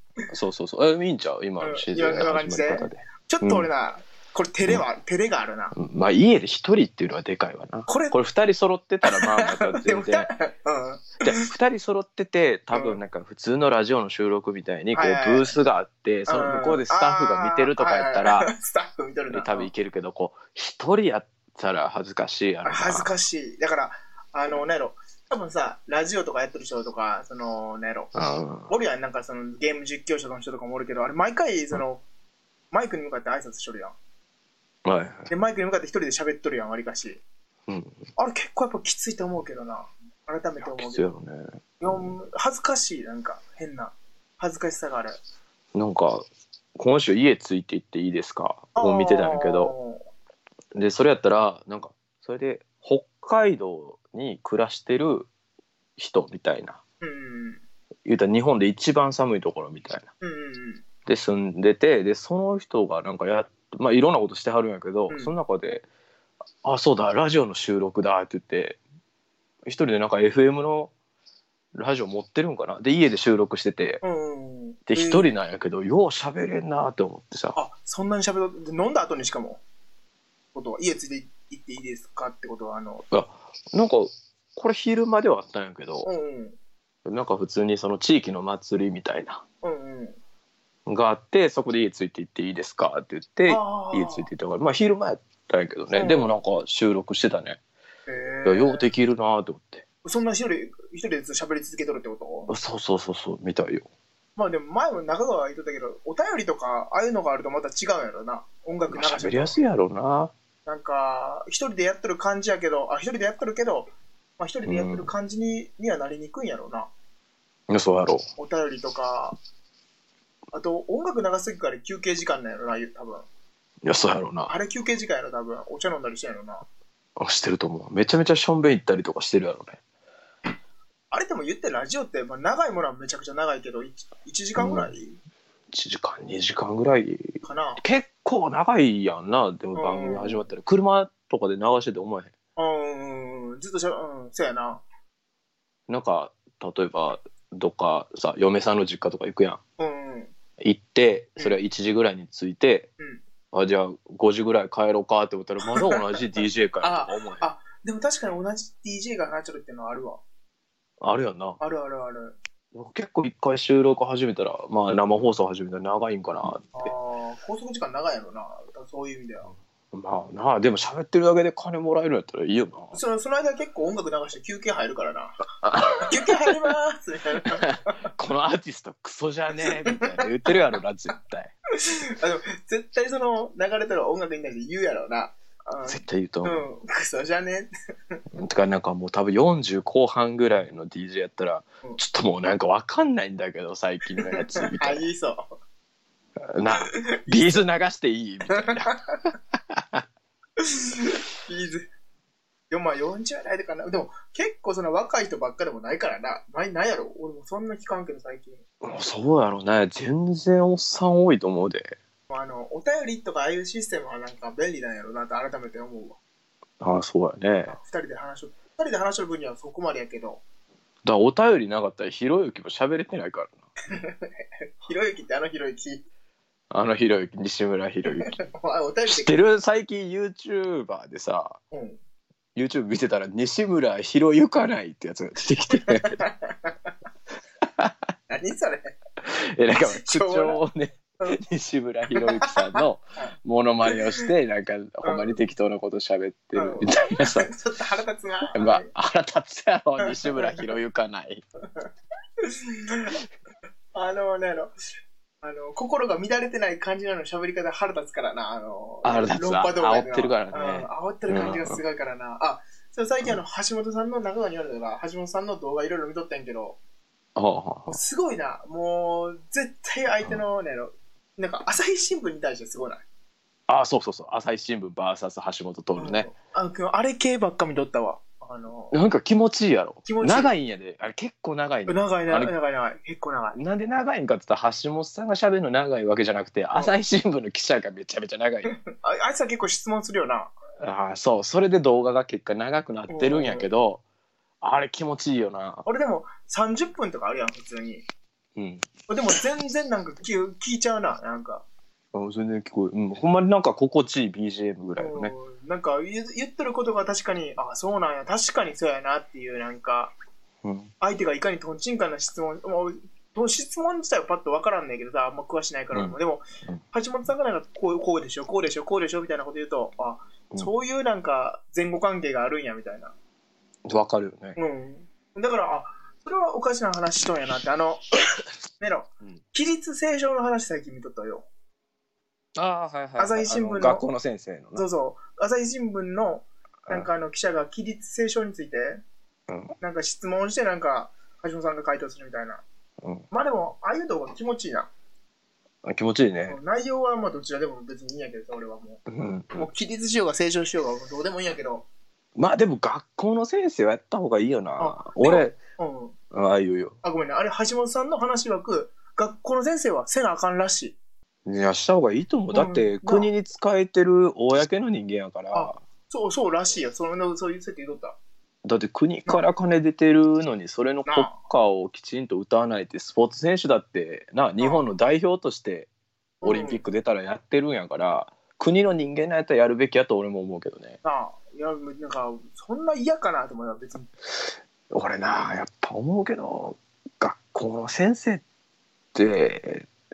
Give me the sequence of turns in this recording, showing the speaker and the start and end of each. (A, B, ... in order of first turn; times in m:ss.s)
0:00.3-0:03.7 A
0:01.6-0:05.7 B
0:05.8-0:10.3 A
0:07.9-0:08.2 B
0:09.0-0:11.4 B
0:11.2-0:18.5 A
0:12.7-0:13.0 B
0:14.9-0:15.6 B
0:16.3-0:19.7 B
0:19.3-0:23.1 A
0:22.6-0:28.1 B
0:28.2-0:28.7 A
0:28.7-0:32.0 B
0:32.7-0:34.0 B
0:34.8-0:35.3 A
0:35.3-0:37.2 B
0:37.7-0:38.0 A
0:38.2-0:41.1 B
0:40.6-0:42.1 A
0:41.8-0:45.2 B
0:45.7-0:49.7 A
0:48.8-0:50.0 B
0:50.7-0:55.3 A
0:56.0-0:56.8 A
0:57.0-0:57.6 B
0:58.0-1:00.1 A
1:00.2-1:00.8 B
1:01.1-1:05.9 A
1:06.6-1:08.8 A
1:09.7-1:10.9 A
1:11.7-1:14.0 A
1:14.0-1:15.3 B
1:14.9-1:17.6 A
1:17.6-1:19.6 B
1:20.6-1:23.0 B
1:23.1-1:26.1 A
1:26.0-1:26.6 B
1:27.0-1:29.4 A
1:29.6-1:30.2 B
1:30.9-1:37.6 A
1:33.5-1:34.3 B
1:35.9-1:36.3 B
1:38.1-1:38.9 B
1:38.4-1:39.8 A
1:40.0-1:42.5 B
1:42.5-1:43.9 A
1:44.4-1:49.6 B
1:48.9-1:50.3 A
1:50.7-1:53.9 B
1:54.4-1:56.9 B
1:54.7-1:55.1 A
1:57.7-1:58.3 A
1:58.4-1:59.4 B
2:00.5-2:03.3 B
2:03.8-2:04.5 A
2:04.5-2:06.6 B
2:07.2-2:09.8 A
2:11.1-2:15.2 B
2:14.6-2:14.9 A
2:15.7-2:22.3 A
2:17.4-2:17.8 B
2:19.8-2:20.5 B
2:22.6-2:24.8 B
2:25.9-2:29.6 A
2:29.8-2:30.3 B
2:30.6-2:32.9 A
2:33.5-2:37.4 A
2:35.7-2:36.0 B
2:36.8-2:40.2 B
2:41.0-2:41.6 A
2:41.6-2:42.4 B
2:42.7-2:46.9 A
2:46.7-2:49.5 B
2:49.9-2:53.0 A
2:52.9-2:55.4 B
2:55.6-2:56.4 A
2:55.9-2:58.0 B
2:57.6-3:01.5 A
2:59.6-3:00.5 B
3:01.8-3:08.2 B
3:05.9-3:06.6 A
3:08.4-3:15.1 A
3:14.2-3:15.5 B
3:16.5-3:19.0 A
3:16.7-3:17.6 B
3:18.5-3:19.0 B
3:19.7-3:20.0 A
3:20.6-3:21.9 B
3:22.7-3:28.6 B
3:28.8-3:32.0 A
3:32.3-3:36.2 B
3:36.8-3:37.8 A
3:37.7-3:40.4 B
3:41.0-3:43.6 A
3:43.9-3:46.0 B
3:46.7-3:48.4 A
3:48.1-3:49.4 B
3:49.1-3:51.6 A
3:51.7-3:52.0 B
3:52.6-3:56.2 A
3:55.7-3:56.7 B
3:58.3-3:59.0 B
3:59.2-4:07.5 A
3:59.8-4:00.6 B
4:02.2-4:03.3 B
4:05.0-4:05.4 B
4:06.6-4:08.9 B
4:08.5-4:11.4 A
4:10.0-4:10.7 B
4:12.4-4:13.2 B
4:13.9-4:14.7 B
4:15.4-4:26.8 B
4:19.0-4:21.8 A
4:27.4-4:28.0 A
4:27.9-4:33.0 B
4:33.7-4:36.3 A
4:36.0-4:39.0 B
4:38.9-4:42.5 A
4:40.1-4:40.5 B
4:41.9-4:43.6 B
4:43.6-4:48.7 A
4:48.7-4:50.5 B
4:50.8-4:54.0 A
4:53.1-4:53.7 B
4:54.6-4:55.8 A
4:55.8-4:58.0 B
4:58.6-4:58.9 A
4:59.1-5:01.6 B
5:02.1-5:05.3 A
5:05.0-5:10.1 B
5:10.6-5:10.9 A
5:11.0-5:23.1 B
5:23.8-5:24.6 A
5:24.6-5:28.1 B
5:28.8-5:31.5 B
5:32.6-5:34.8 A
5:33.2-5:34.0 B
5:34.8-5:39.0 B
5:39.5-5:39.7 A
5:39.8-5:42.6 B
5:43.3-5:44.9 B
5:45.8-5:46.6 A
5:46.5-5:51.9 B
5:49.1-5:49.7 A
5:52.4-5:55.6 A
5:54.8-5:56.2 B
5:56.3-5:57.0 A
5:57.0-6:01.0 B
6:01.5-6:05.8 A
6:02.5-6:03.3 B
6:05.5-6:08.2 B
6:08.6-6:15.9 A
6:11.1-6:11.4 B
6:14.6-6:14.8 B
6:16.4-6:16.8 B
6:16.4-6:21.0 A
6:21.0-6:24.1 B
6:24.9-6:28.4 A
6:29.1-6:29.9 A